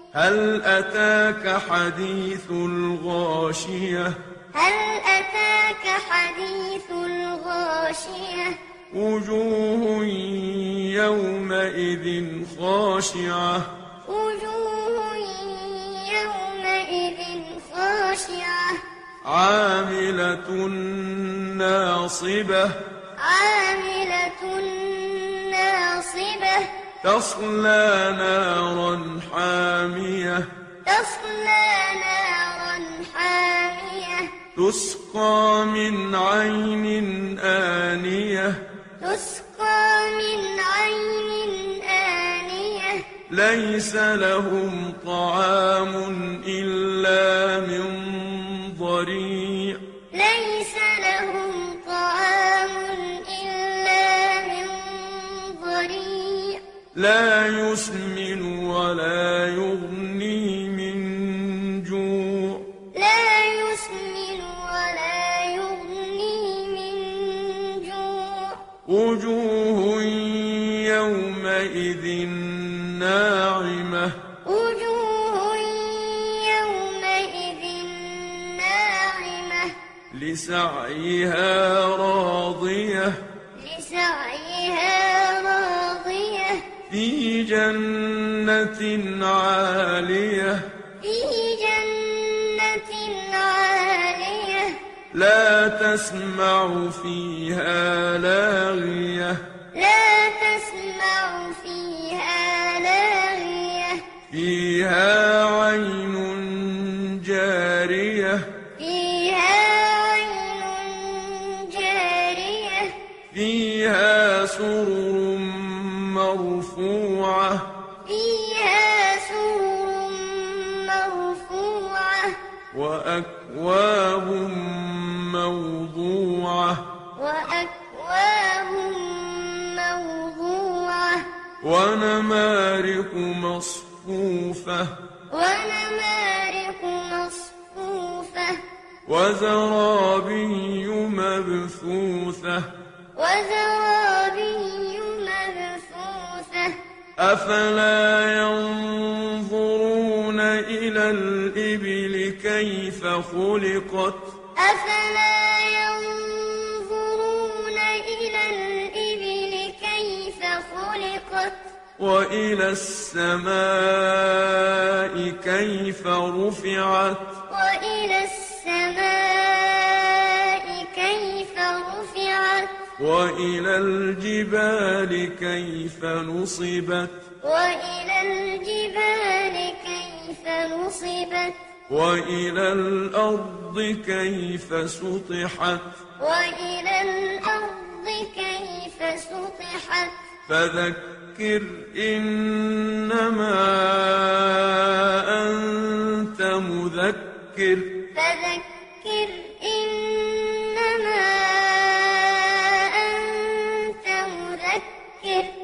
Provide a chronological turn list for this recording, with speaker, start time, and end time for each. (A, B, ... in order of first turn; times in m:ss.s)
0:00.1-0:04.2 A
0:04.5-0:08.6 B
0:08.9-0:13.7 A
0:14.0-0:18.8 B
0:19.2-0:22.8 A
0:23.2-0:26.7 B
0:27.0-0:30.5 A
0:30.8-0:34.4 B
0:34.5-0:38.6 A
0:39.0-0:43.1 B
0:43.3-0:49.8 A
0:50.1-0:56.6 B
0:56.9-1:02.7 A
1:02.9-1:08.6 B
1:08.8-1:14.2 A
1:14.4-1:19.7 B
1:20.1-1:23.2 A
1:23.6-1:26.7 B
1:26.9-1:30.7 A
1:31.0-1:34.8 B
1:35.1-1:39.4 A
1:39.7-1:44.1 B
1:44.3-1:48.5 A
1:48.8-1:53.0 B
1:53.3-1:57.7 A
1:58.0-2:02.4 B
2:02.7-2:06.8 A
2:07.2-2:11.3 B
2:11.6-2:14.9 A
2:15.3-2:18.6 B
2:19.0-2:22.7 A
2:23.2-2:26.8 B
2:27.2-2:34.3 A
2:34.6-2:41.7 B
2:42.0-2:47.3 A
2:47.5-2:52.8 B
2:53.0-2:57.2 A
2:57.4-3:01.6 B
3:01.9-3:06.0 A
3:06.2-3:10.2 B
3:10.4-3:18.0 A
3:18.1-3:25.6 B